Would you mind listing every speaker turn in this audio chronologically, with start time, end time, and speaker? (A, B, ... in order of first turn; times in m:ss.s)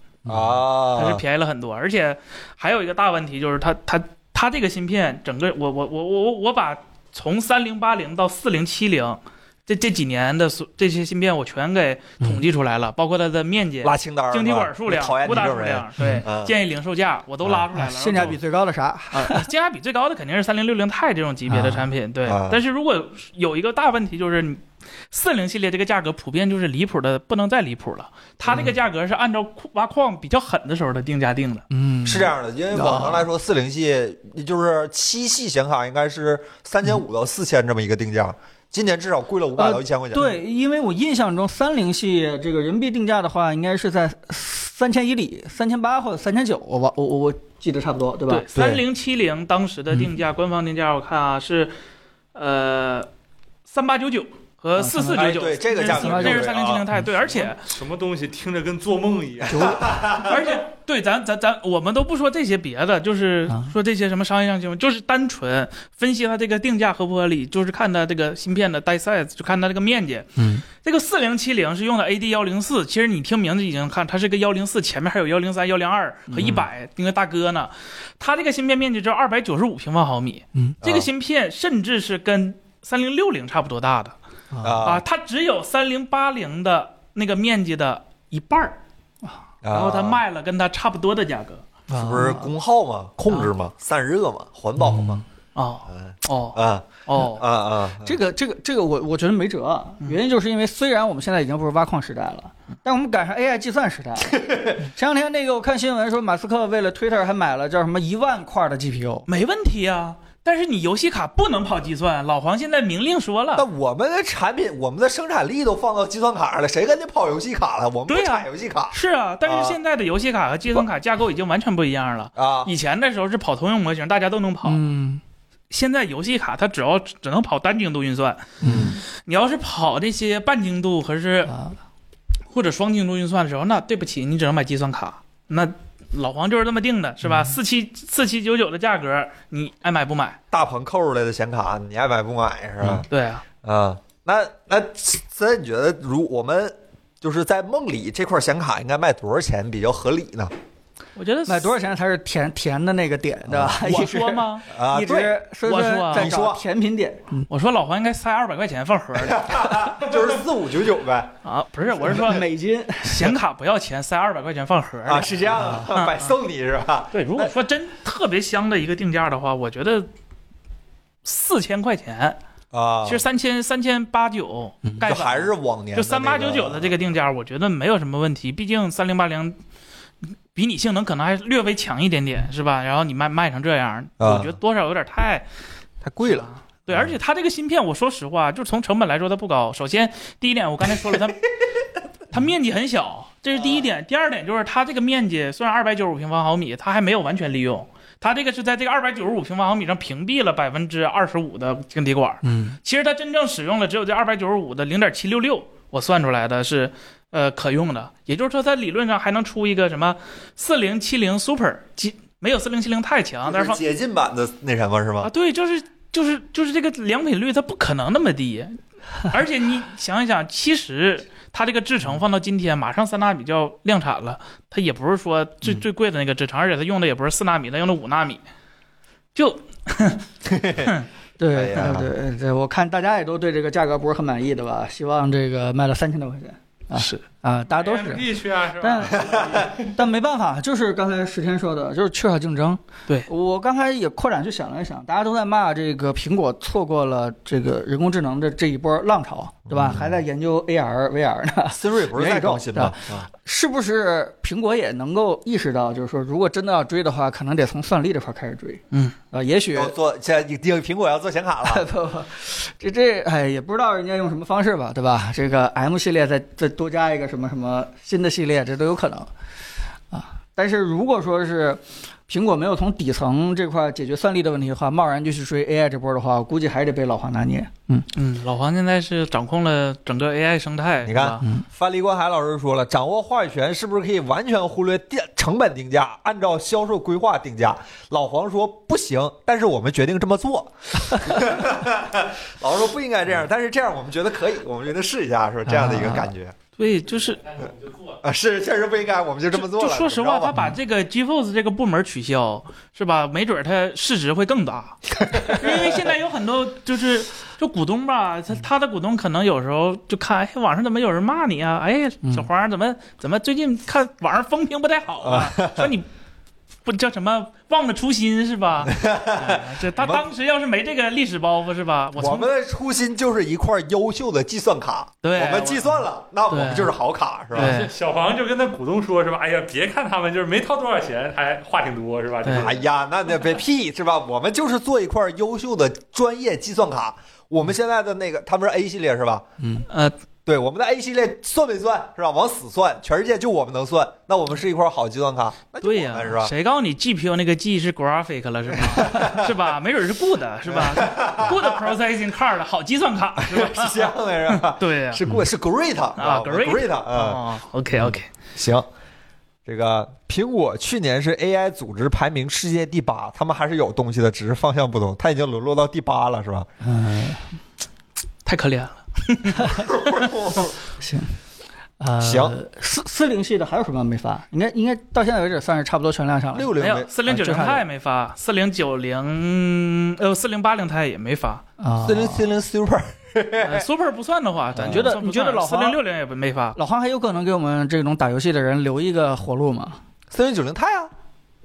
0:00.3-0:00.5 A
0:00.3-0:01.2 B
0:00.9-0:18.4 C
0:13.8-0:16.5 B
0:16.0-0:16.2 A
0:17.7-0:19.5 A
0:19.1-0:31.6 C
0:21.5-0:21.9 A
0:22.2-0:22.6 B
0:28.4-0:28.7 B
0:31.7-0:33.3 A
0:32.0-0:40.4 B
0:39.6-0:48.4 A
0:48.3-0:51.7 C
0:48.5-0:48.8 B
0:52.3-0:53.1 C
0:53.7-0:57.6 C
0:54.8-0:57.0 A
0:55.1-0:56.8 B
0:57.2-1:00.0 D
0:59.5-0:59.9 A
0:59.6-1:00.4 B
1:00.2-1:24.1 C
1:10.4-1:10.6 A
1:16.3-1:16.6 A
1:16.4-1:16.6 B
1:20.8-1:21.1 B
1:24.5-1:24.9 A
1:24.6-1:25.0 B
1:24.8-1:28.8 C
1:29.6-1:30.2 B
1:29.7-1:31.6 C
1:31.9-1:32.5 A
1:31.9-1:35.2 B
1:34.8-1:35.2 A
1:35.5-1:37.4 C
1:35.9-1:38.2 B
1:38.0-1:49.3 A
1:44.4-1:44.8 B
1:49.3-1:53.7 C
1:53.6-1:59.8 B
1:58.1-2:04.8 C
2:02.4-2:02.7 B
2:04.6-2:05.2 A
2:05.7-2:11.5 C
2:08.6-2:08.9 B
2:08.6-2:09.0 A
2:11.5-2:11.8 A
2:12.5-2:20.4 C
2:17.2-2:17.5 A
2:20.5-2:23.1 B
2:23.1-2:23.4 C
2:23.6-2:30.5 B
2:31.2-2:31.7 C
2:31.5-2:37.5 A
2:33.5-2:33.8 B
2:33.8-2:34.6 C
2:34.7-2:35.4 B
2:35.6-2:36.3 C
2:36.1-2:36.6 B
2:37.5-2:39.9 C
2:39.2-2:41.3 B
2:41.4-2:42.4 C
2:42.0-2:43.3 A
2:43.0-2:46.3 C
2:45.0-2:47.5 B
2:45.5-2:45.9 A
2:47.1-2:50.1 C
2:51.2-2:52.4 C
2:52.7-2:53.2 B
2:53.0-2:59.6 C
2:55.0-2:57.0 B
3:00.5-3:05.4 C
3:04.2-3:04.6 B
3:06.0-3:07.1 B
3:06.2-3:11.5 C
3:12.3-3:33.8 C
3:22.4-3:22.8 A
3:33.4-3:35.3 B
3:35.2-3:48.4 C
3:49.3-3:50.2 C
3:50.4-3:50.9 B
3:50.8-3:51.1 C
3:51.4-4:19.9 A
3:51.5-3:52.1 B
3:56.9-3:57.2 C
3:57.7-3:59.9 D
4:09.7-4:10.2 B
4:11.7-4:13.3 B
4:19.7-4:21.8 B
4:21.6-4:29.3 A
4:30.1-4:38.1 A
4:38.1-4:41.4 C
4:41.0-4:56.6 B
4:55.6-4:56.3 A
4:56.8-4:57.6 C
4:58.2-5:00.6 B
4:59.5-5:16.0 C
5:05.2-5:06.0 B
5:15.2-5:15.9 B
5:16.8-5:22.5 C
5:18.9-5:20.3 B
5:22.2-5:27.8 B
5:25.2-5:26.0 C
5:26.5-5:26.9 C
5:27.5-5:27.9 C
5:27.6-5:32.8 D
5:32.4-5:32.7 C
5:32.5-5:39.4 B
5:39.6-5:39.8 A
5:39.9-5:40.1 C
5:40.4-5:46.5 B
5:45.8-5:55.3 C
5:48.9-5:49.5 B
5:50.7-5:51.9 B
5:53.4-5:57.4 B
5:56.2-5:58.3 C
5:58.5-5:58.9 B
5:59.6-6:06.7 B
6:06.8-6:07.5 A
6:08.4-6:10.3 C
6:09.7-6:10.7 B
6:11.0-6:11.3 A
6:12.0-6:16.7 A
6:12.2-6:12.6 B
6:16.5-6:17.1 B
6:16.8-6:21.6 C
6:17.2-6:17.8 A
6:21.8-6:22.5 A
6:22.0-6:23.9 B
6:23.6-6:26.8 C
6:24.8-6:26.0 A
6:26.8-6:30.0 A
6:30.3-6:31.1 B